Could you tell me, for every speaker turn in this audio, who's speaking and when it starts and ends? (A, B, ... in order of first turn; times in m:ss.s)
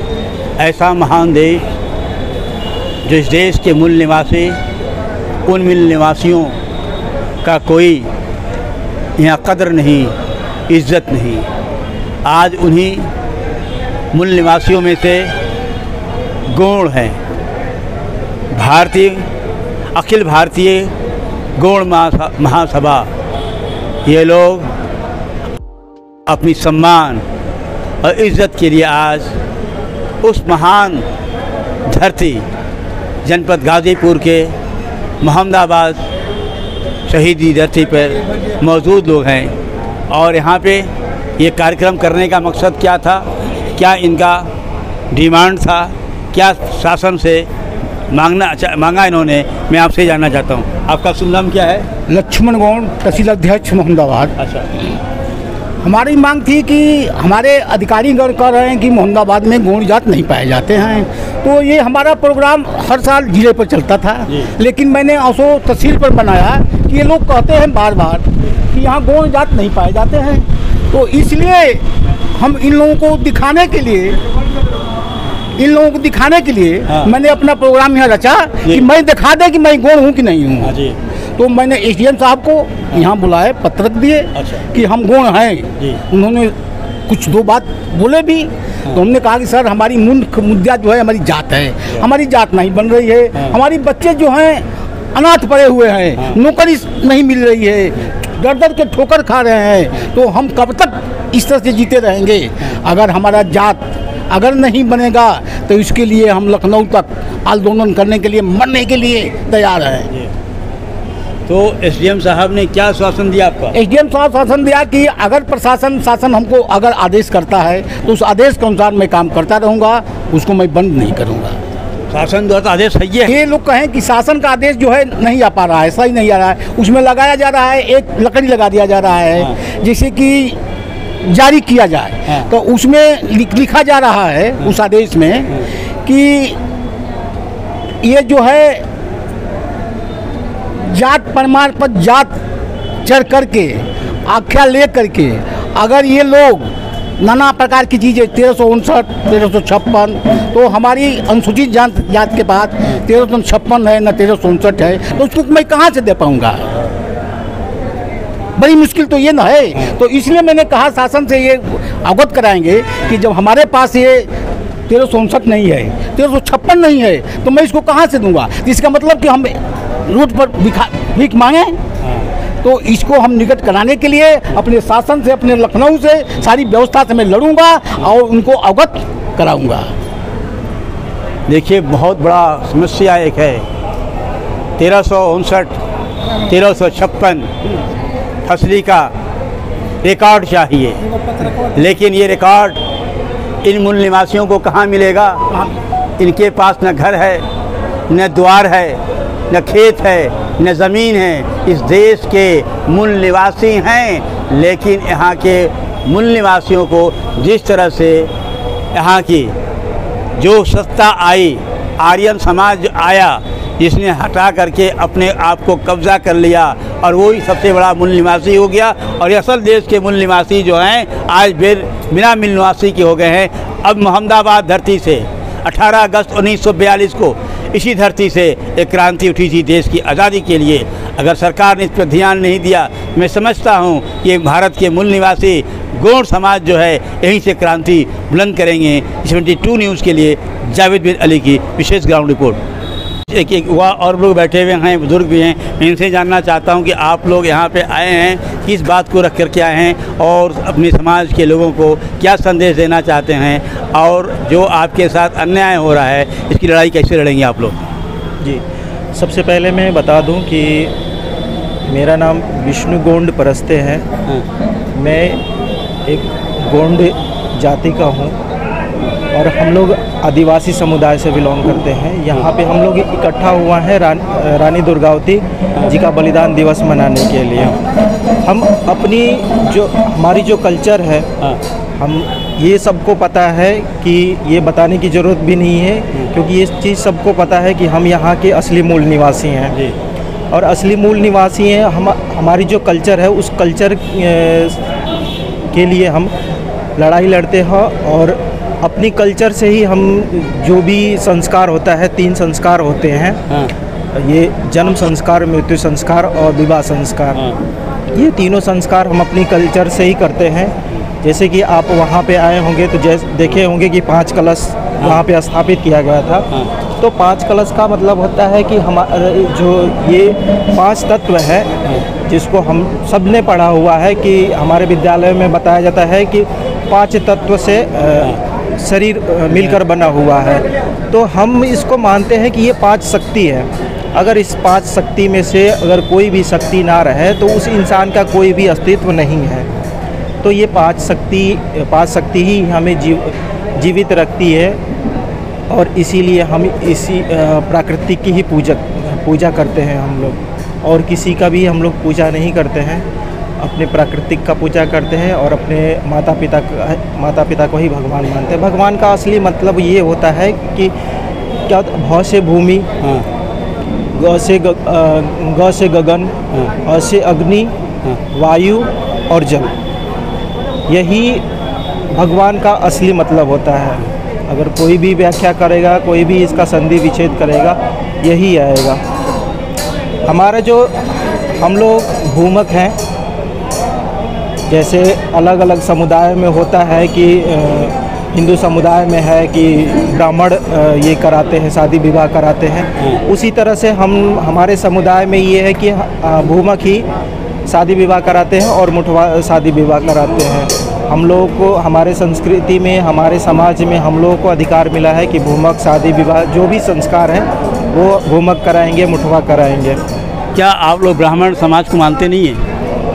0:00.6-0:01.7 A
0:03.0-0:04.6 A
0:05.5-0:06.5 A
0:07.4-0:08.1 A
0:09.2-0:10.1 A
0:10.7-0:11.5 A
0:12.2-0:13.1 A
0:14.1-0:15.3 A
0:16.5-0:17.2 A
0:18.5-0:19.3 A
0:19.9-0:20.9 A
0:21.6-0:23.1 A
0:24.0-0:24.7 A
0:26.3-0:27.2 A
0:28.0-0:29.4 A
0:30.2-0:31.0 A
0:31.9-0:32.4 A
0:33.2-0:34.5 A
0:35.2-0:36.0 A
0:37.1-0:39.5 A
0:40.1-0:44.5 A
0:45.1-0:47.5 A
0:48.1-0:51.9 A
0:52.1-0:54.4 B
0:54.4-0:54.7 A
0:55.8-1:14.2 B
1:15.6-1:20.8 B
1:20.6-1:21.0 A
1:21.4-1:26.6 B
1:24.4-1:24.7 A
1:27.1-1:50.1 B
1:51.5-1:53.8 A
1:53.7-2:01.6 B
2:02.1-2:03.4 A
2:03.3-2:10.6 B
2:11.2-2:16.6 B
2:18.0-2:18.8 B
2:20.8-2:22.4 B
2:23.0-2:36.8 B
2:38.6-2:44.3 B
2:44.9-2:51.8 B
2:52.0-2:52.3 A
2:52.6-2:59.9 B
3:01.5-3:03.6 A
3:04.8-3:05.8 A
3:06.4-3:07.5 A
3:08.4-3:09.1 A
3:10.0-3:12.8 A
3:13.6-3:15.5 A
3:16.2-3:17.4 A
3:18.1-3:28.3 A
3:28.9-3:29.5 A
3:30.4-4:02.6 A
4:03.3-4:17.8 A
4:19.2-4:21.0 C
4:21.9-4:24.1 C
4:25.0-4:25.4 C
4:26.1-4:28.4 C
4:29.3-4:37.8 C
4:38.4-4:41.3 C
4:42.0-4:49.8 C
4:50.5-4:54.9 C
4:55.7-4:56.3 C
4:57.0-5:03.4 C
5:04.1-5:07.4 C
5:08.1-5:39.7 C
5:40.4-5:44.8 C
5:45.7-5:53.1 C
5:53.6-6:00.9 C
6:01.7-6:02.9 C
6:03.0-6:03.3 A
6:04.1-6:07.7 C
6:08.3-6:09.7 C
6:10.9-6:11.4 C
6:12.1-6:19.0 C
6:20.3-6:21.0 C
6:21.6-6:23.0 C
6:24.7-6:37.1 C
6:37.7-6:50.0 C
6:50.6-6:52.6 A